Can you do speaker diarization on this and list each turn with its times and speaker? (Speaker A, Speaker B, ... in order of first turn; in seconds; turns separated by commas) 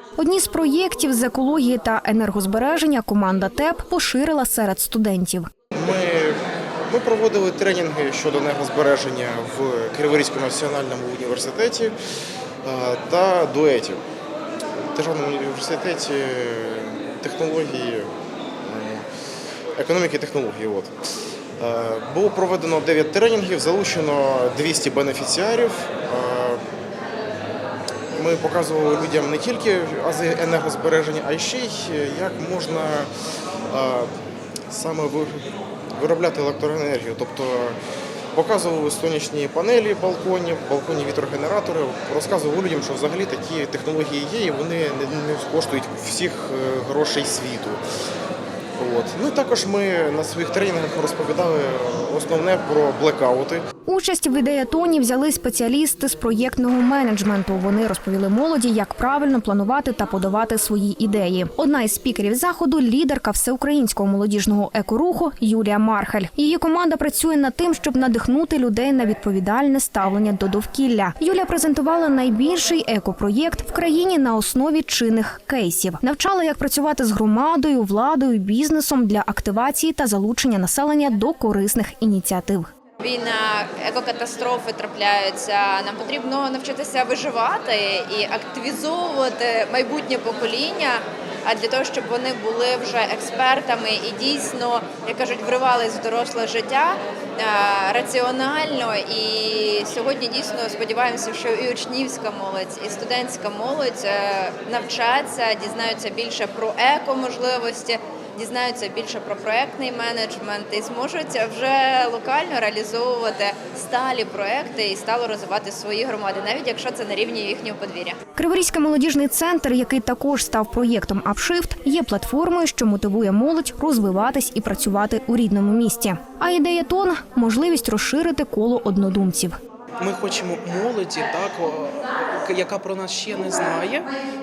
Speaker A: 0.2-5.5, Speaker B: 5.7-11.9, Speaker B: 12.6-14.0, Speaker B: 14.9-19.1, Speaker B: 19.8-20.9, Speaker B: 21.6-26.6, Speaker B: 28.1-33.1, Speaker B: 33.7-34.1, Speaker B: 34.7-35.5, Speaker B: 36.0-37.8, Speaker B: 38.3-47.8, Speaker B: 48.8-53.6, Speaker A: 53.9-82.7, Speaker C: 83.0-118.2, Speaker A: 118.3-129.6, Speaker D: 130.0-134.1